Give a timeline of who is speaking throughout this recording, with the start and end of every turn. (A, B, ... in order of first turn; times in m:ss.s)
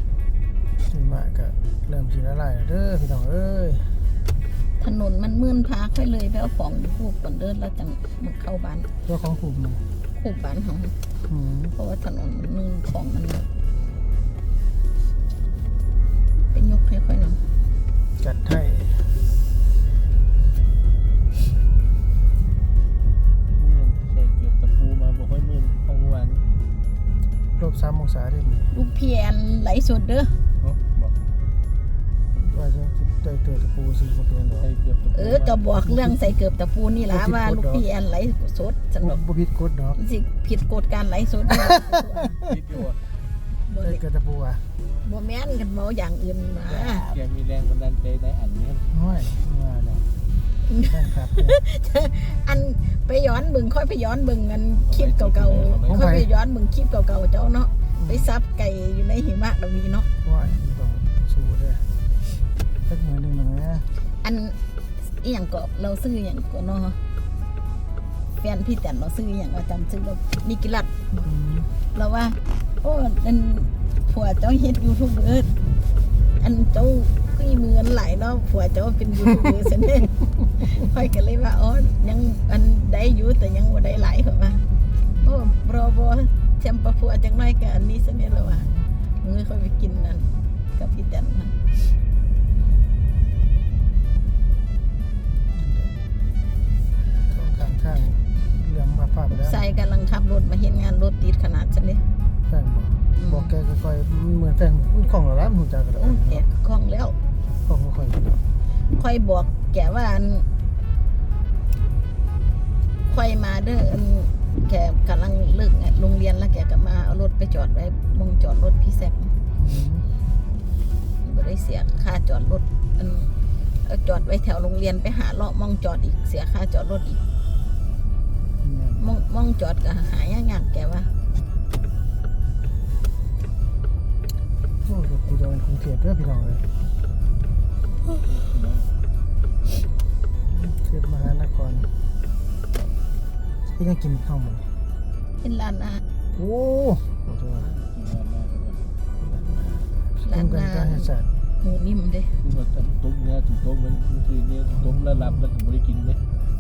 0:00.9-0:04.0 A
0:04.8-0:08.9 B
0:09.1-0:09.8 A
0:10.2-0:11.0 B
0:11.3-0:11.8 A
0:11.8-0:13.5 B
0:16.5-0:17.4 B
0:18.2-0:19.2 A
0:23.6-0:26.4 C
0:27.6-0:28.7 A
0:28.7-0:30.4 B
0:30.6-0:31.2 C
0:32.4-0:34.7 A
0:34.6-0:35.6 C
0:35.1-0:39.2 B
0:35.8-0:36.4 A
0:37.1-0:37.8 A
0:39.0-0:40.0 A
0:40.0-0:42.4 B
0:42.4-0:43.0 C
0:43.7-0:44.0 B
0:43.8-0:44.7 A
0:45.0-0:47.2 B
0:46.7-0:48.9 C
0:48.9-0:50.1 A
0:50.7-1:00.1 B
0:50.8-0:51.6 A
0:54.8-0:56.1 C
0:55.8-0:56.3 A
0:58.0-0:58.3 A
1:00.2-1:01.9 A
1:02.9-1:03.9 A
1:04.2-1:07.0 B
1:08.4-1:11.3 B
1:11.2-1:11.7 A
1:11.9-1:15.5 B
1:16.4-1:24.7 B
1:25.2-1:31.9 B
1:28.3-1:28.9 A
1:35.5-1:36.0 A
1:37.3-1:39.6 A
1:39.3-1:42.0 B
1:42.5-1:46.4 A
1:43.2-1:43.5 B
1:46.0-1:47.2 B
1:47.6-1:48.4 A
1:48.8-1:50.5 B
1:53.1-1:59.3 B
1:59.6-2:00.1 A
2:01.2-2:07.2 B
2:08.6-2:09.0 A
2:09.0-2:11.1 B
2:14.8-2:16.7 A
2:18.0-2:18.9 C
2:20.5-2:21.9 A
2:23.7-2:24.7 A
2:25.4-2:26.0 B
2:26.4-2:27.7 A
2:27.7-2:28.8 C
2:29.2-2:31.3 A
2:30.2-2:32.4 B
2:32.4-2:36.2 C
2:34.7-2:35.5 A